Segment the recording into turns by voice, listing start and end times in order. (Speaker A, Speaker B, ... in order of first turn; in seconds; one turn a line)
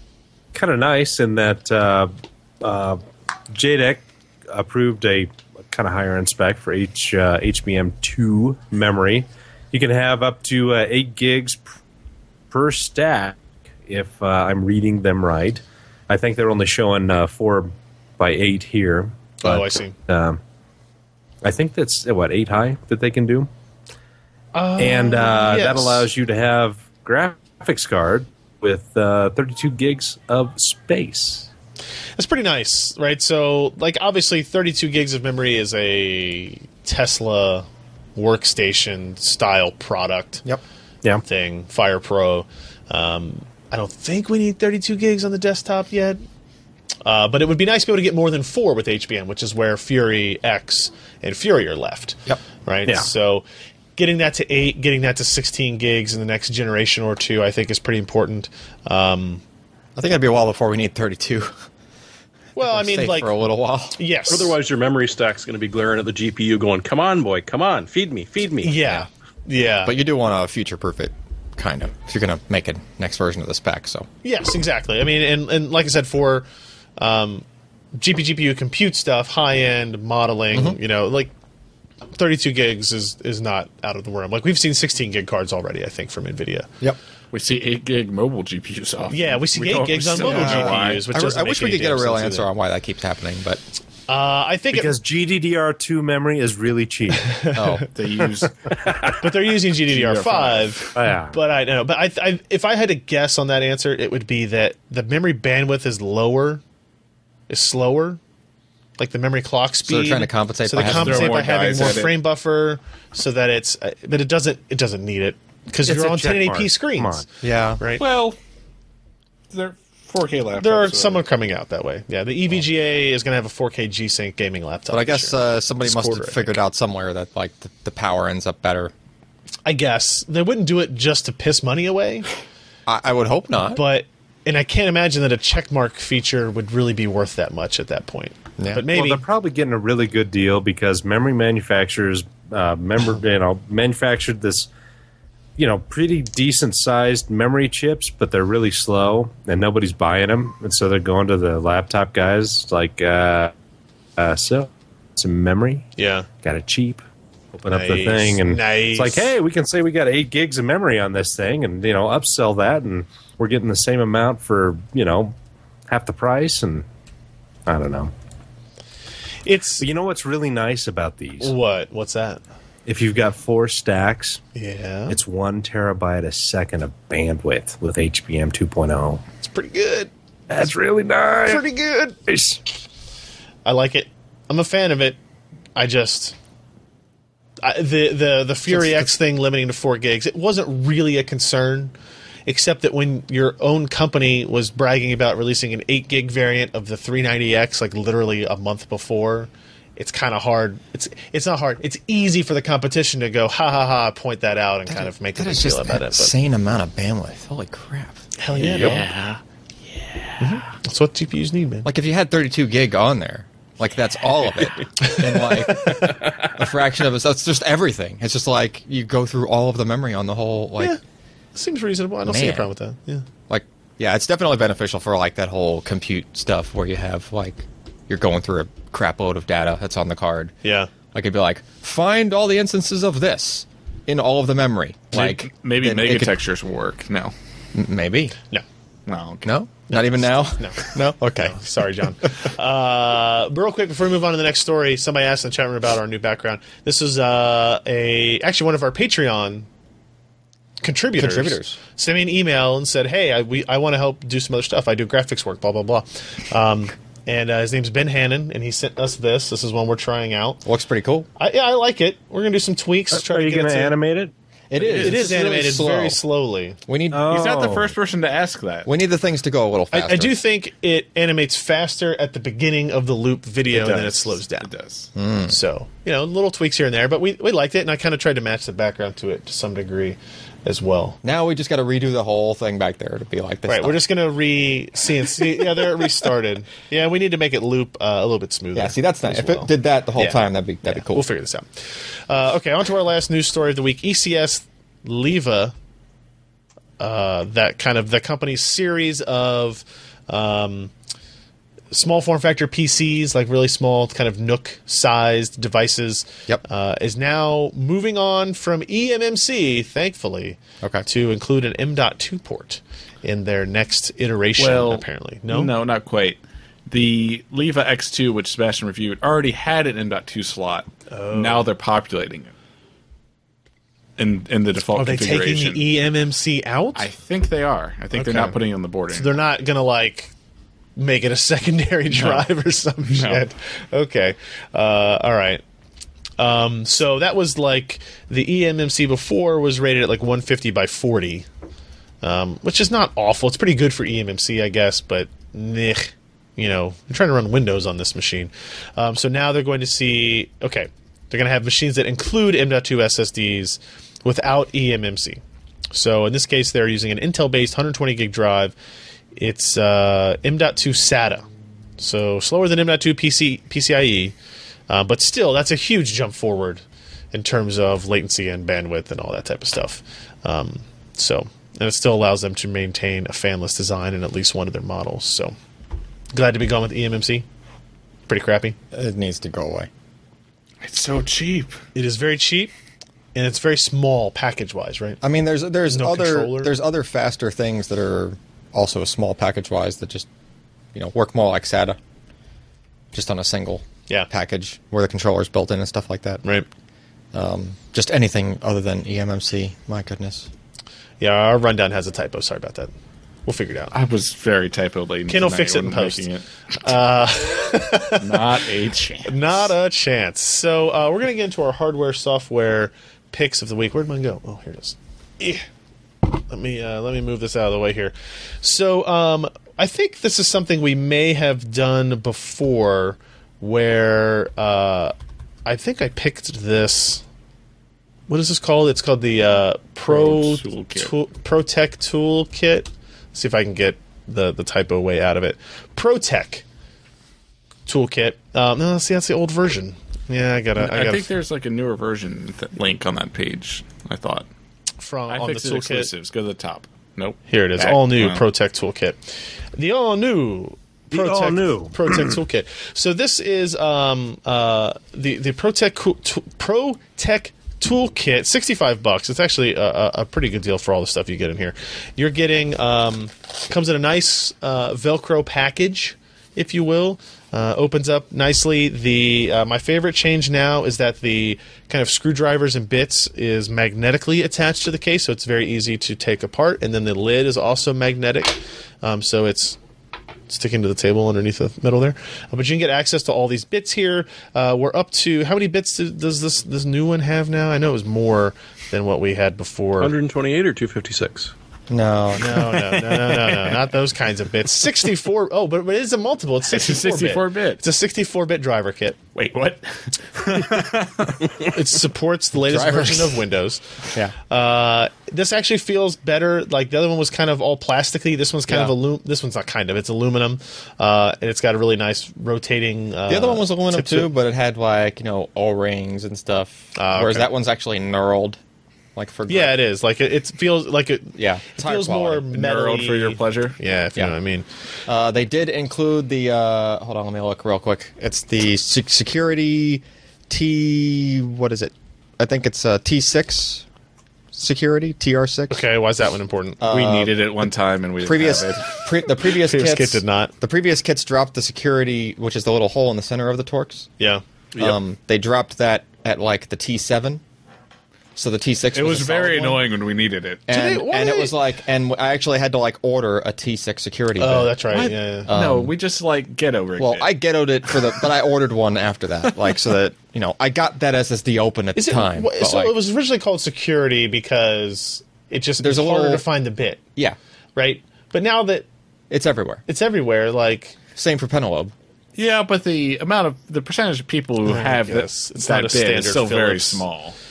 Speaker A: 0.5-3.0
Speaker A: 3.5-11.8
Speaker A: 12.5-20.4
Speaker B: 19.4-19.9
Speaker A: 21.4-23.5
Speaker B: 24.5-26.1
Speaker A: 24.8-31.5
Speaker B: 32.2-40.4
Speaker B: 41.2-46.2
Speaker B: 47.0-53.4
Speaker B: 54.0-59.4
Speaker C: 60.0-61.5
Speaker B: 62.5-63.3
Speaker C: 62.6-64.0
Speaker B: 63.9-64.5
Speaker D: 64.3-68.8
Speaker B: 68.6-69.9
Speaker C: 69.8-74.1
Speaker B: 74.2-81.3
Speaker C: 80.5-80.8
Speaker B: 82.2-86.7
Speaker E: 87.3-91.0
Speaker B: 89.1-92.5
Speaker C: 90.2-93.6
Speaker B: 94.1-95.0
Speaker A: 94.7-97.5
Speaker B: 97.3-97.9
Speaker C: 97.5-97.9
Speaker E: 97.9-98.7
Speaker A: 98.8-99.1
Speaker B: 99.2-106.6
Speaker E: 99.9-100.8
Speaker A: 100.9-101.4
Speaker B: 107.5-108.2
Speaker B: 109.0-117.2
Speaker C: 109.9-111.5
Speaker E: 110.8-112.1
Speaker A: 115.8-117.3
Speaker C: 117.4-117.8
Speaker B: 117.8-118.0
Speaker E: 118.0-118.4
Speaker E: 119.5-121.2
Speaker B: 120.6-126.5
Speaker C: 124.9-128.9
Speaker B: 129.7-132.3
Speaker C: 132.9-133.8
Speaker B: 133.7-139.2
Speaker C: 138.6-138.8
Speaker A: 138.9-144.7
Speaker A: 145.6-153.5
Speaker A: 154.2-155.9
Speaker B: 156.0-156.3
Speaker A: 156.4-157.0
Speaker A: 157.5-165.3
Speaker B: 157.7-159.3
Speaker A: 165.9-166.8
Speaker A: 167.7-168.1
Speaker B: 169.4-169.9
Speaker A: 169.8-171.5
Speaker B: 171.4-172.4
Speaker A: 172.8-174.4
Speaker B: 174.5-175.2
Speaker A: 175.1-179.2
Speaker B: 179.4-180.1
Speaker A: 180.5-181.6
Speaker B: 181.4-182.2
Speaker A: 182.2-182.6
Speaker B: 183.6-185.2
Speaker B: 185.8-186.3
Speaker B: 187.6-191.9
Speaker B: 192.4-206.3
Speaker C: 204.9-209.0
Speaker B: 208.4-209.0
Speaker E: 208.6-210.4
Speaker B: 210.4-211.9
Speaker C: 211.8-221.0
Speaker B: 215.0-216.0
Speaker D: 216.0-216.3
Speaker B: 221.5-223.2
Speaker C: 222.2-222.7
Speaker C: 223.5-230.5
Speaker B: 230.6-230.9
Speaker C: 231.1-236.3
Speaker E: 235.1-237.3
Speaker C: 237.7-238.3
Speaker E: 239.1-239.5
Speaker C: 239.4-241.6
Speaker B: 239.9-249.7
Speaker B: 250.8-260.6
Speaker C: 251.2-251.8
Speaker C: 260.6-261.3
Speaker B: 261.4-263.9
Speaker A: 263.1-264.3
Speaker C: 264.7-266.2
Speaker E: 264.8-265.2
Speaker B: 265.0-266.8
Speaker C: 266.9-267.3
Speaker A: 267.1-267.9
Speaker E: 267.3-268.9
Speaker C: 268.8-270.3
Speaker B: 269.9-274.7
Speaker E: 273.7-275.1
Speaker C: 275.1-275.5
Speaker B: 275.5-281.2
Speaker C: 281.2-284.0
Speaker B: 283.7-295.7
Speaker C: 288.7-291.2
Speaker B: 297.0-300.9
Speaker B: 301.9-315.7
Speaker E: 314.6-322.5
Speaker B: 321.1-321.6
Speaker E: 324.2-325.8
Speaker B: 324.9-327.1
Speaker E: 326.9-329.3
Speaker B: 328.1-328.6
Speaker B: 329.1-330.3
Speaker B: 331.0-335.6
Speaker E: 332.1-332.4
Speaker E: 333.1-333.4
Speaker B: 336.4-341.5
Speaker B: 342.2-355.4
Speaker B: 355.9-358.8
Speaker B: 359.4-361.5
Speaker B: 362.0-364.3
Speaker B: 364.9-375.5
Speaker B: 376.3-377.4
Speaker B: 378.3-378.8
Speaker C: 378.9-379.9
Speaker E: 380.8-381.8
Speaker B: 381.9-382.7
Speaker B: 383.3-385.2
Speaker C: 385.2-390.3
Speaker B: 385.9-386.7
Speaker C: 390.9-392.0
Speaker C: 393.1-396.4
Speaker C: 397.3-400.5
Speaker B: 401.2-402.9
Speaker B: 403.4-403.9
Speaker E: 403.9-406.4
Speaker B: 405.3-406.3
Speaker B: 406.8-408.6
Speaker E: 408.2-409.7
Speaker B: 409.2-415.6
Speaker B: 416.2-425.1
Speaker B: 425.6-427.2
Speaker B: 428.3-436.6
Speaker E: 430.1-431.1
Speaker B: 437.9-441.3
Speaker E: 440.8-444.5
Speaker B: 445.0-446.1
Speaker E: 445.3-448.4
Speaker B: 447.5-479.8
Speaker A: 451.1-452.4
Speaker B: 480.5-490.1
Speaker D: 490.0-491.5
Speaker C: 491.9-493.0
Speaker B: 492.4-499.2
Speaker E: 496.7-497.8
Speaker E: 499.3-501.5
Speaker B: 501.6-503.8
Speaker C: 502.6-503.4
Speaker B: 504.5-514.3
Speaker C: 508.7-508.9
Speaker C: 513.3-518.6
Speaker B: 516.9-517.5
Speaker C: 519.1-519.8
Speaker B: 519.5-524.6
Speaker C: 521.4-522.5
Speaker E: 522.5-523.8
Speaker C: 525.0-533.8
Speaker C: 534.5-535.8
Speaker B: 535.7-536.8
Speaker C: 536.8-544.1
Speaker E: 536.8-539.0
Speaker B: 539.6-540.5
Speaker C: 544.8-547.4
Speaker C: 548.4-549.8
Speaker E: 548.9-550.6
Speaker C: 550.7-555.9
Speaker B: 550.7-551.5
Speaker B: 554.4-555.5
Speaker E: 554.9-558.3
Speaker C: 557.0-563.0
Speaker B: 561.9-567.0
Speaker C: 565.8-566.4
Speaker B: 567.8-568.9
Speaker C: 569.3-569.8
Speaker B: 569.9-571.0
Speaker C: 571.1-571.9
Speaker E: 572.4-577.3
Speaker B: 574.6-577.0